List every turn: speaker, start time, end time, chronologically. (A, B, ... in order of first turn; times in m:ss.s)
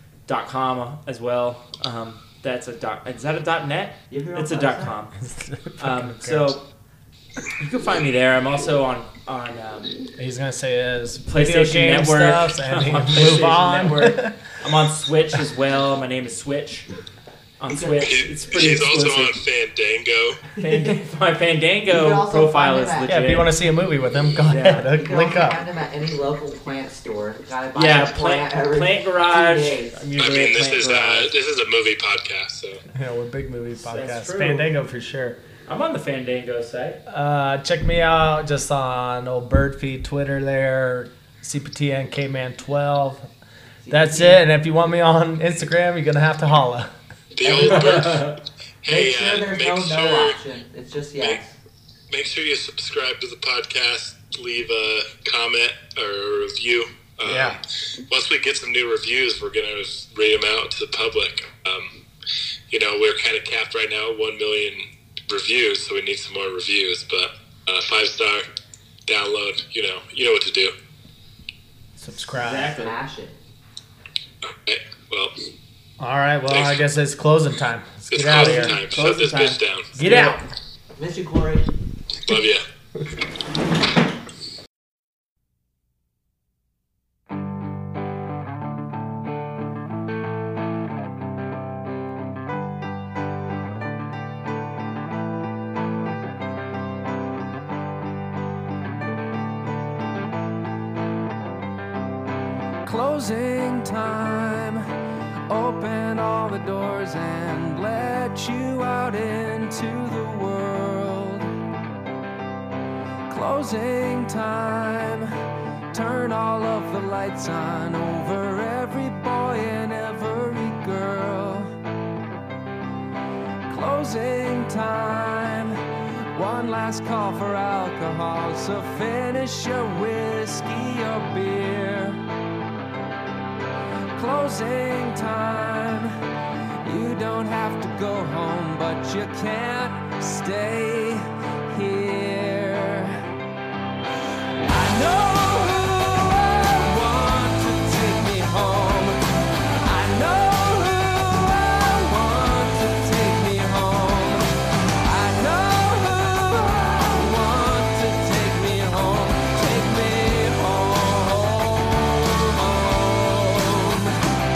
0:00.3-0:05.1 A
0:04.1-0:05.0 B
0:05.2-0:06.6 C
0:05.8-0:06.6 A
0:07.6-0:10.0 A
0:10.2-0:14.4 C
0:11.2-0:16.9 A
0:17.6-0:19.3 A
0:17.7-0:18.1 B
0:18.0-0:20.4 D
0:20.6-0:23.5 A
0:21.9-0:23.2 B
0:23.1-0:25.6 C
0:24.5-0:24.9 A
0:24.9-0:30.0 B
0:27.7-0:31.3 A
0:30.2-0:32.8 D
0:32.9-0:35.4 C
0:33.8-0:34.7 A
0:35.7-0:37.0 A
0:37.1-0:43.3 C
0:43.8-0:44.4 B
0:43.9-0:46.9 C
0:47.3-0:50.4 D
0:47.4-0:48.2 B
0:47.5-0:48.3 A
0:48.8-0:51.6 B
0:52.1-1:02.0 D
0:57.2-0:57.6 C
1:02.7-1:08.5 D
1:09.1-1:10.7 D
1:12.0-1:12.7 C
1:12.3-1:12.9 A
1:12.5-1:13.4 B
1:14.4-1:15.3 D
1:16.0-1:18.7 C
1:16.5-1:16.9 D
1:18.1-1:20.3 D
1:18.3-1:20.4 A
1:20.0-1:20.5 C
1:21.0-1:21.7 B
1:22.2-1:22.6 D
1:42.8-1:44.8 E
1:45.5-1:51.5 E
1:53.3-1:55.3 E
1:55.9-2:01.7 E
2:03.7-2:05.8 E
2:06.3-2:12.2 E
2:14.2-2:16.1 E
2:16.8-2:23.2 E
2:24.6-2:34.5 E
2:35.0-2:44.2 E